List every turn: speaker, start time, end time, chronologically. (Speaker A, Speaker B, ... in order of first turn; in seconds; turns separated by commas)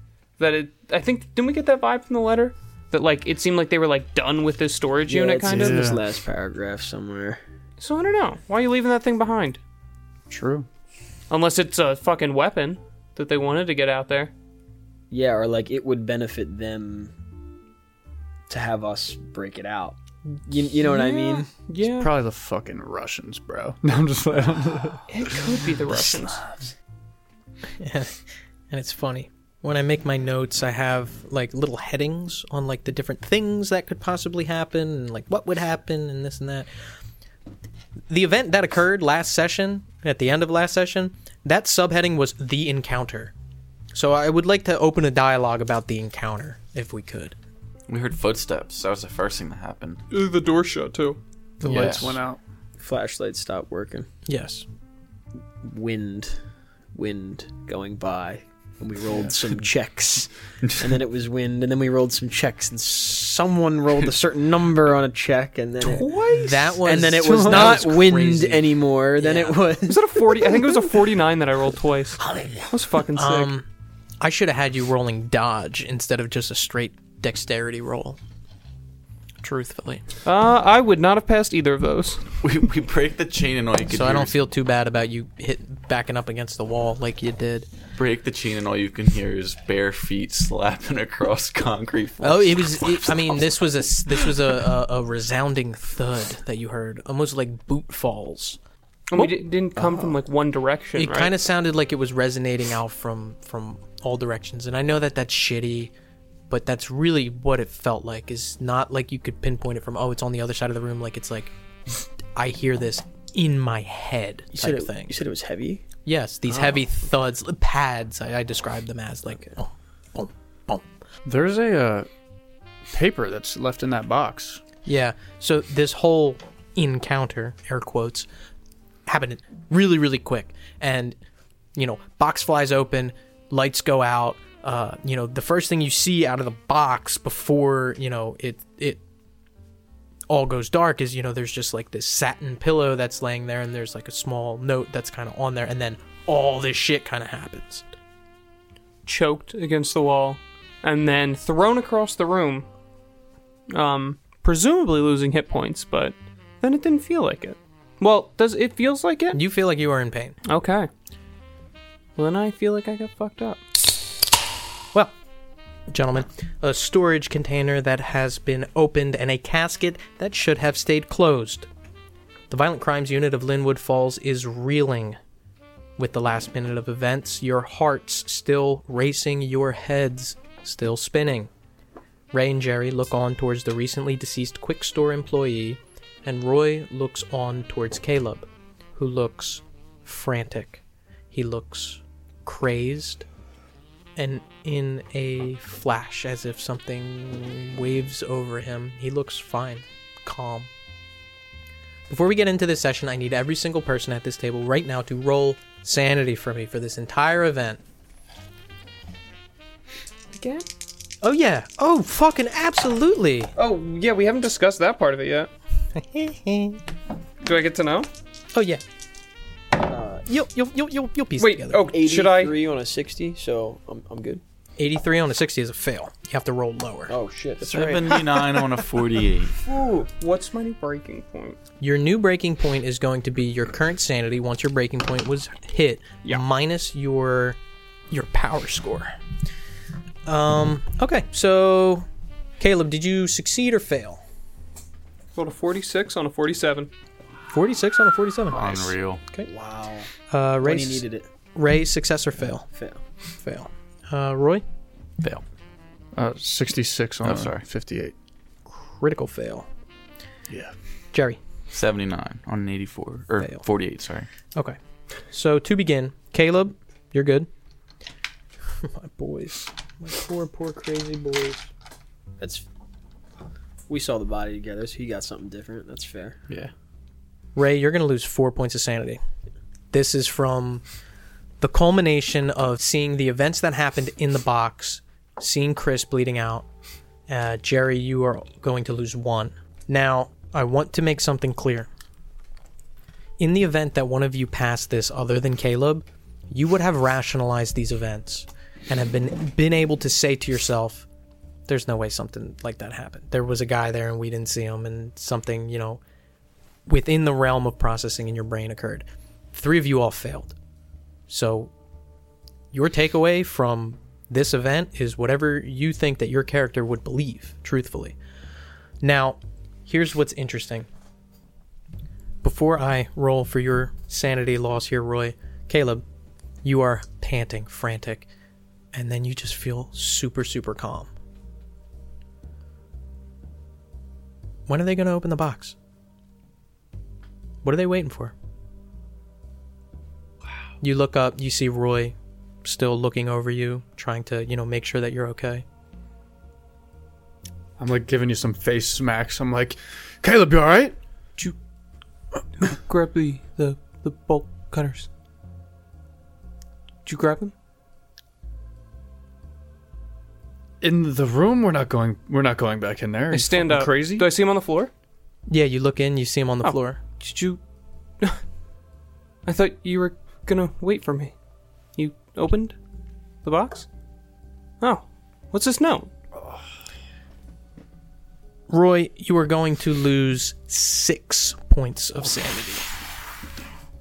Speaker A: 0.4-5.8, Speaker B: 5.1-7.4, Speaker C: 5.5-6.0, Speaker A: 7.8-9.6, Speaker C: 10.3-10.7, Speaker A: 11.3-14.3, Speaker B: 15.1-17.1, Speaker B: 18.5-21.5, Speaker A: 20.8-22.1, Speaker C: 21.9-25.4, Speaker A: 25.1-26.5, Speaker D: 27.8-36.7, Speaker D: 38.1-43.3, Speaker D: 43.9-47.4, Speaker E: 47.9-50.0, Speaker A: 50.1-51.2, Speaker C: 51.6-52.4, Speaker B: 51.6-52.2, Speaker E: 51.6-52.1, Speaker B: 52.8-54.1, Speaker D: 54.2-54.6, Speaker B: 55.6-56.4, Speaker B: 56.9-70.6, Speaker A: 65.8-66.7, Speaker D: 66.2-69.6, Speaker C: 67.3-67.8, Speaker A: 69.9-73.5, Speaker D: 73.1-73.7, Speaker D: 74.2-78.2, Speaker D: 79.4-80.0, Speaker A: 80.2-82.2, Speaker E: 82.4-84.3, Speaker D: 83.9-87.7, Speaker E: 87.9-93.4, Speaker D: 92.2-98.6, Speaker A: 99.1-101.3, Speaker D: 101.0-105.9, Speaker D: 106.5-111.5, Speaker D: 112.3-115.2, Speaker B: 114.5-115.8, Speaker D: 116.0-120.8, Speaker B: 116.5-116.8, Speaker C: 121.2-122.1, Speaker C: 122.9-124.6, Speaker D: 124.8-128.3, Speaker D: 129.1-131.2, Speaker D: 131.8-139.0, Speaker D: 140.3-147.9, Speaker A: 149.1-152.7, Speaker A: 153.7-159.4, Speaker D: 159.3-160.3, Speaker A: 160.5-160.9, Speaker A: 162.2-163.6, Speaker D: 165.9-171.7, Speaker D: 172.5-175.2, Speaker D: 176.0-181.5, Speaker D: 182.3-193.2, Speaker D: 194.2-200.7, Speaker D: 202.1-207.8, Speaker A: 210.3-210.7, Speaker D: 211.2-213.5, Speaker A: 213.6-215.5, Speaker D: 215.9-216.8, Speaker A: 217.4-218.1, Speaker D: 218.5-218.8, Speaker B: 219.8-220.2, Speaker D: 220.3-221.9, Speaker A: 221.4-222.5, Speaker B: 221.9-224.4, Speaker D: 224.8-227.1, Speaker B: 227.1-228.2, Speaker E: 227.6-229.6, Speaker A: 229.6-231.6, Speaker D: 231.8-237.6, Speaker D: 238.1-239.1, Speaker D: 240.2-242.1, Speaker D: 242.6-244.2, Speaker A: 245.3-246.9, Speaker D: 247.5-249.5, Speaker E: 248.5-249.2, Speaker B: 249.4-250.1, Speaker D: 250.3-252.7, Speaker B: 250.6-251.3, Speaker B: 252.7-253.0, Speaker D: 253.4-254.6, Speaker C: 256.1-258.1, Speaker E: 257.2-257.6, Speaker D: 258.7-259.7, Speaker D: 261.1-261.4, Speaker E: 261.7-264.3, Speaker D: 265.3-267.5, Speaker D: 268.8-271.7, Speaker B: 272.4-272.6, Speaker B: 273.9-276.5, Speaker D: 277.5-279.2, Speaker D: 279.9-280.8, Speaker D: 281.6-286.7, Speaker D: 287.3-291.9, Speaker D: 293.4-301.1, Speaker D: 301.7-306.0, Speaker D: 306.9-310.5, Speaker D: 311.3-311.7, Speaker D: 312.7-318.2, Speaker D: 319.0-320.9, Speaker D: 322.4-326.0, Speaker D: 326.6-328.3, Speaker D: 328.9-331.1, Speaker D: 334.7-335.7, Speaker D: 337.6-338.3, Speaker D: 340.8-345.6, Speaker C: 347.8-351.0, Speaker A: 352.6-355.1, Speaker A: 357.0-357.5, Speaker C: 360.8-364.3, Speaker A: 363.3-364.9, Speaker D: 365.5-367.0, Speaker A: 366.6-367.6, Speaker A: 369.4-371.3, Speaker A: 371.9-372.8, Speaker A: 373.4-373.9, Speaker A: 374.8-376.1, Speaker D: 378.7-382.9